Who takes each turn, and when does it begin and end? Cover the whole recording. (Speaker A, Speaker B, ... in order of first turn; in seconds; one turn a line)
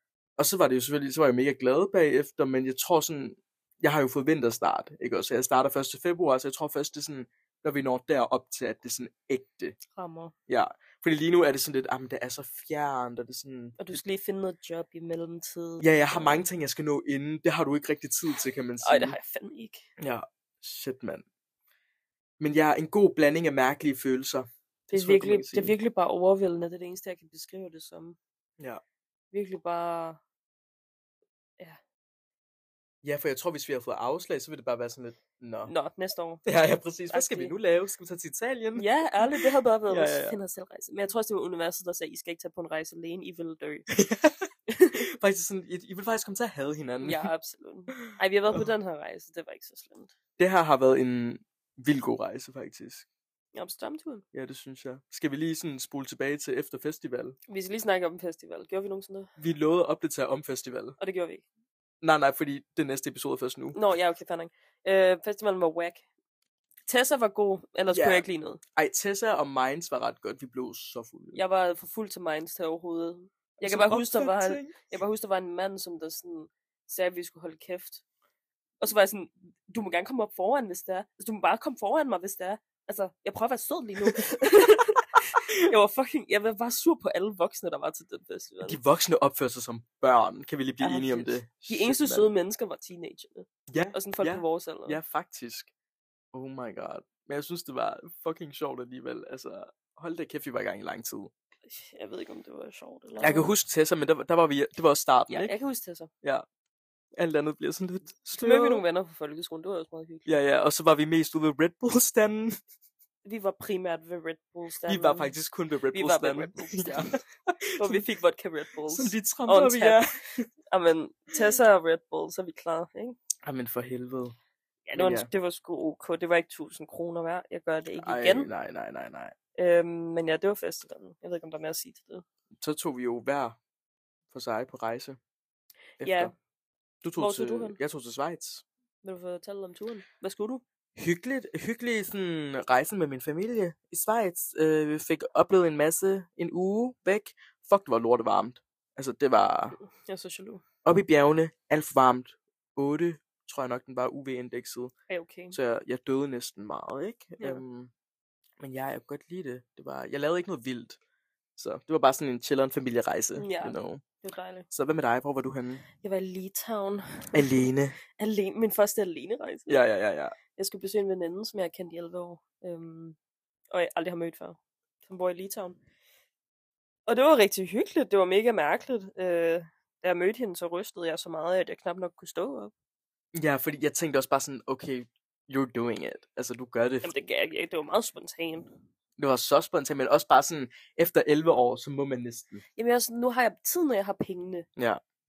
Speaker A: 0.4-9.8
Speaker B: 9.9-10.3
Speaker A: 10.5-14.0
Speaker B: 13.8-16.4
Speaker A: 15.8-19.2
Speaker B: 18.8-19.9
Speaker A: 20.0-21.2
Speaker A: 22.4-25.8
Speaker B: 24.9-28.2
Speaker B: 29.3-30.2
Speaker A: 33.0-35.7
Speaker B: 35.7-36.4
Speaker A: 36.5-40.4
Speaker B: 37.1-37.5
Speaker B: 38.7-43.9
Speaker A: 43.9-47.3
Speaker B: 44.7-45.0
Speaker B: 47.0-50.1
Speaker A: 48.1-48.7
Speaker A: 50.4-53.1
Speaker B: 53.5-54.2
Speaker A: 54.3-57.4
Speaker B: 57.5-59.3
Speaker A: 59.4-61.0
Speaker B: 61.0-61.4
Speaker A: 62.0-63.8
Speaker B: 63.7-66.0
Speaker B: 66.8-68.6
Speaker A: 67.9-68.2
Speaker A: 68.8-71.4
Speaker B: 71.3-78.0
Speaker A: 73.6-74.9
Speaker B: 78.8-88.8
Speaker A: 88.6-92.3
Speaker B: 90.8-95.0
Speaker A: 93.7-95.7
Speaker A: 96.3-101.3
Speaker B: 101.7-103.5
Speaker A: 103.2-105.5
Speaker B: 105.3-106.1
Speaker A: 107.2-108.8
Speaker B: 108.3-110.4
Speaker A: 110.3-112.6
Speaker B: 113.2-115.3
Speaker A: 114.8-118.0
Speaker B: 115.9-117.2
Speaker B: 117.8-120.0
Speaker A: 118.9-120.5
Speaker B: 120.7-123.2
Speaker A: 123.4-124.3
Speaker B: 124.9-128.5
Speaker A: 125.0-125.3
Speaker A: 128.0-129.3
Speaker B: 129.6-132.2
Speaker A: 132.6-133.6
Speaker A: 134.3-135.2
Speaker A: 136.0-136.3
Speaker B: 136.0-136.3
Speaker A: 137.0-138.6
Speaker B: 137.2-137.8
Speaker B: 139.0-140.6
Speaker A: 140.9-149.8
Speaker B: 149.8-150.6
Speaker A: 150.8-154.9
Speaker B: 155.1-155.6
Speaker A: 155.5-157.9
Speaker A: 158.6-161.0
Speaker A: 161.6-164.0
Speaker B: 163.3-164.7
Speaker A: 164.7-165.8
Speaker B: 166.0-169.8
Speaker A: 167.3-167.9
Speaker A: 169.7-170.3
Speaker B: 170.5-173.2
Speaker B: 173.7-175.8
Speaker B: 177.1-182.7
Speaker A: 183.3-187.1
Speaker B: 187.0-188.7
Speaker A: 189.2-192.6
Speaker B: 192.8-194.7